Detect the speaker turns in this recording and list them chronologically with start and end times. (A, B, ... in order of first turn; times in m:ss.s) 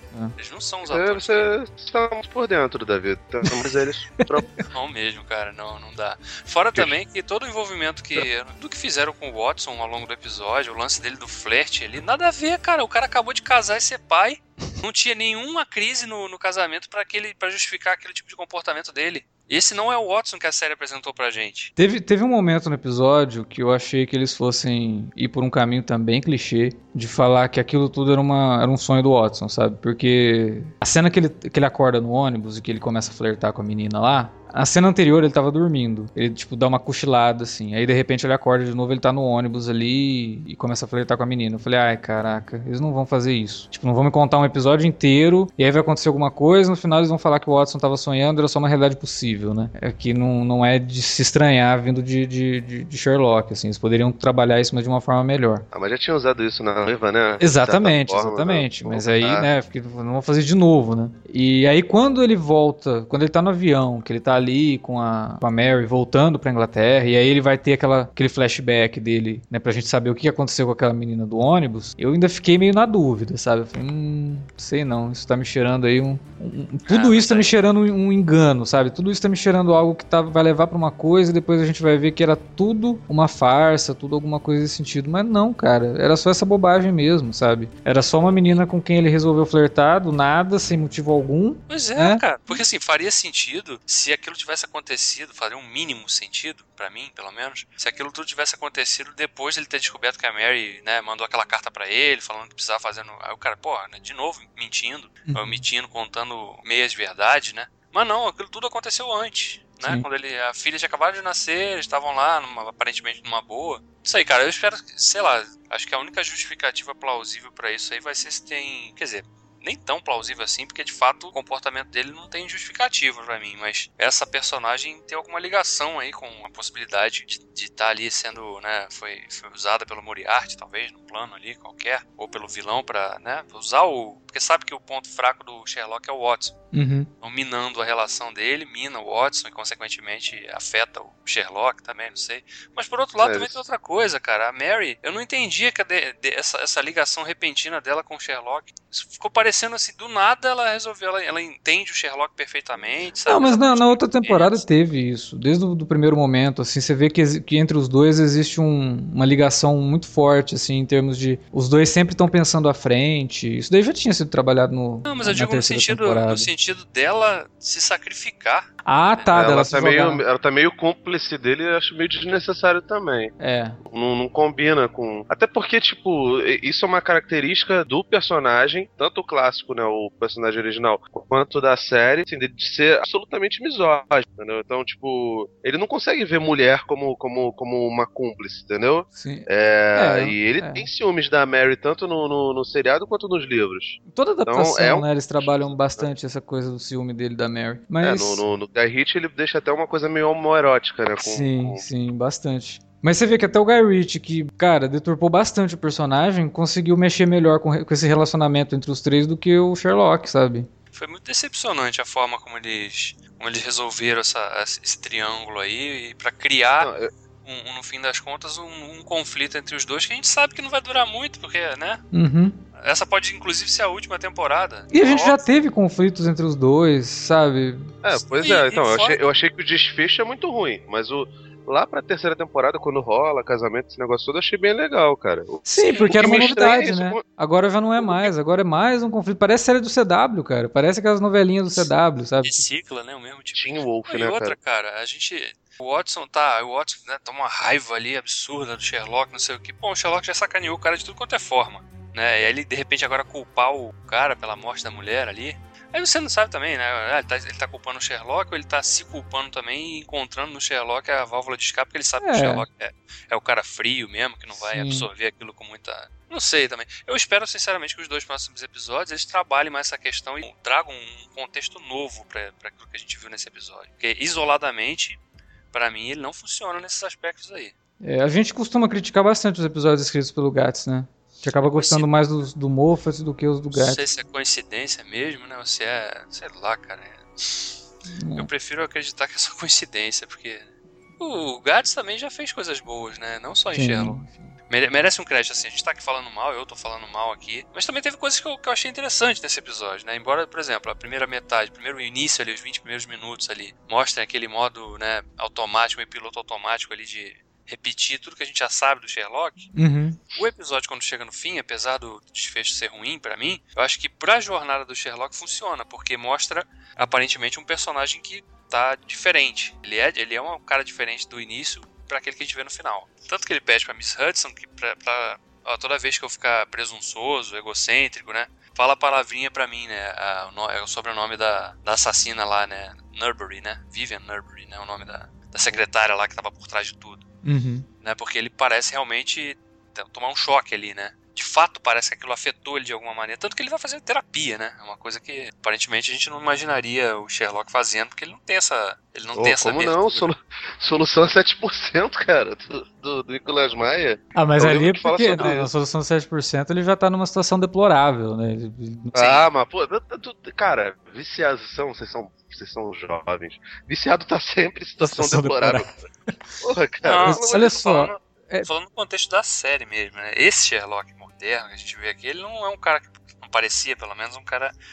0:00.4-0:01.5 A
0:00.8-0:04.5 B
0:03.4-0:04.6 C
0:04.7-0:21.7 A
0:21.8-0:55.6 C
0:55.7-0:59.5 B
0:57.4-1:32.6 C
1:16.9-1:17.5 A
1:31.7-2:16.6 A
1:45.2-1:45.6 C
2:16.7-2:17.1 C
2:17.2-2:34.6 A
2:23.2-2:23.7 B
2:33.3-2:46.5 C
2:45.0-2:49.3 A
2:48.8-2:50.2 C
2:49.3-2:53.3 B
2:53.4-2:53.8 C
2:53.8-3:16.0 B
3:09.2-3:10.9 C
3:14.1-3:18.4 C
3:18.0-3:21.8 B
3:21.2-3:30.7 C
3:30.9-3:36.9 A
3:36.8-3:37.1 B
3:37.4-3:42.0 A
3:42.1-3:42.6 C
3:42.8-3:45.4 A
3:44.9-3:47.9 C
3:48.0-3:57.2 B
3:48.3-3:49.2 A
3:55.6-4:02.6 C
3:55.8-3:56.8 A
3:58.0-3:58.3 B
4:02.4-4:35.2 A
4:03.5-4:04.6 B
4:22.2-4:22.6 C
4:24.5-4:25.1 C
4:35.7-4:37.7 A
4:38.0-4:44.0 C
4:41.6-4:42.1 A
4:43.7-4:47.8 A
4:48.1-4:48.5 C
4:48.4-5:09.7 A
4:53.7-4:54.5 C
5:09.7-5:10.2 C
5:10.3-5:37.2 A
5:37.4-5:37.9 C
5:38.0-5:50.3 A
5:49.3-5:55.7 B
5:54.3-5:59.1 C
5:59.1-6:05.9 B
5:59.1-5:59.4 A
6:05.0-6:06.3 C
6:06.6-6:08.2 B
6:07.0-6:14.7 A
6:07.2-6:08.7 C